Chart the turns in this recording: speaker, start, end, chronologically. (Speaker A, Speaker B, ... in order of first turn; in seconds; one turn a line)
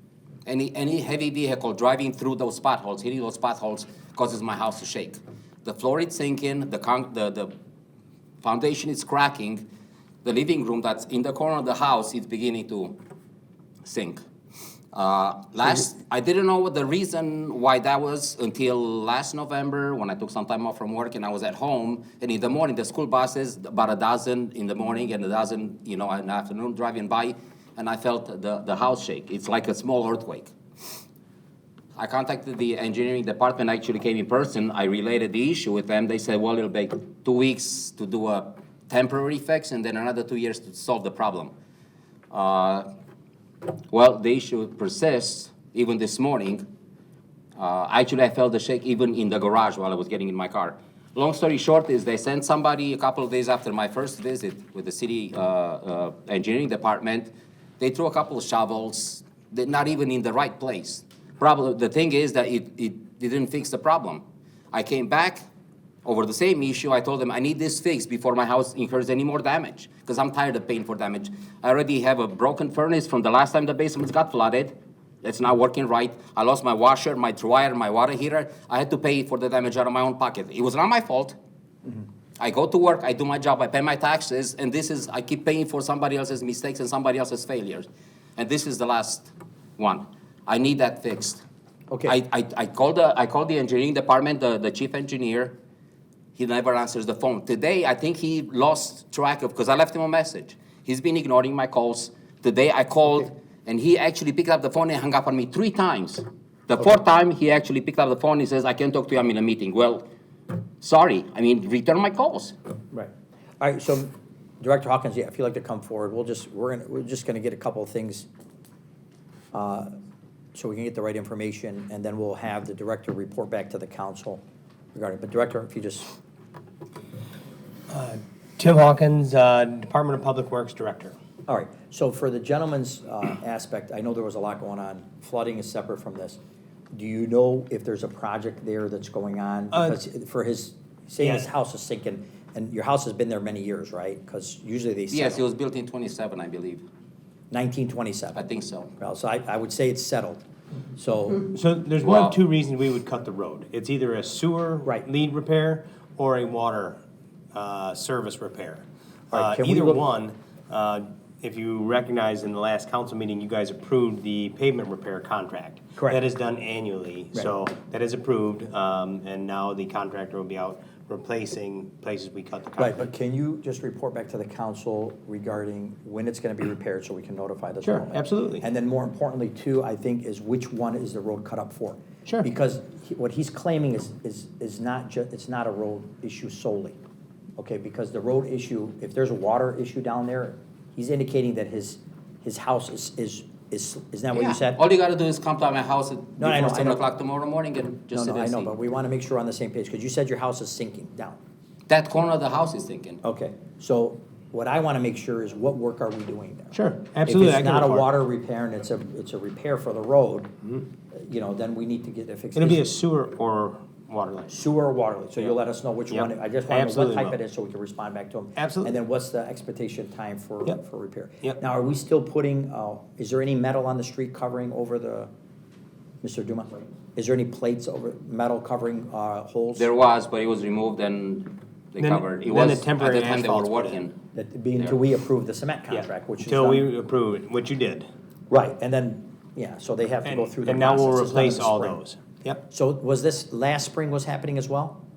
Speaker A: 0.5-7.5
Speaker A: 8.4-9.6
Speaker A: 10.2-12.9
Speaker A: 13.8-14.2
Speaker A: 14.9-30.5
Speaker A: 31.9-41.5
Speaker A: 42.3-42.9
Speaker A: 43.9-46.6
Speaker A: 47.5-65.4
Speaker A: 66.0-81.3
Speaker A: 82.4-91.4
Speaker B: 91.9-92.2
Speaker A: 92.0-95.5
Speaker A: 96.3-110.0
Speaker A: 110.8-112.5
Speaker B: 112.9-118.3
Speaker B: 119.5-119.9
Speaker B: 120.5-124.4
Speaker B: 124.9-126.1
Speaker C: 127.9-131.2
Speaker B: 131.5-136.4
Speaker B: 136.9-145.4
Speaker C: 139.7-140.0
Speaker C: 141.2-141.4
Speaker A: 145.1-146.8
Speaker B: 147.5-148.4
Speaker A: 148.3-148.9
Speaker B: 149.0-150.4
Speaker B: 150.9-151.5
Speaker C: 151.5-157.0
Speaker A: 152.0-152.4
Speaker C: 157.5-173.0
Speaker B: 159.3-160.0
Speaker B: 172.8-187.0
Speaker C: 177.8-178.6
Speaker B: 187.6-194.8
Speaker A: 194.3-198.7
Speaker B: 196.4-197.0
Speaker B: 198.1-201.4
Speaker A: 201.9-203.2
Speaker B: 203.2-210.5
Speaker C: 206.7-208.1
Speaker B: 211.1-212.8
Speaker C: 212.5-214.6
Speaker B: 214.5-225.3
Speaker C: 216.1-217.4
Speaker C: 218.6-218.9
Speaker B: 226.2-229.9
Speaker A: 229.8-234.2
Speaker C: 232.0-234.0
Speaker B: 234.3-236.9
Speaker C: 235.9-238.1
Speaker B: 238.5-242.0
Speaker C: 240.2-242.6
Speaker B: 242.7-245.0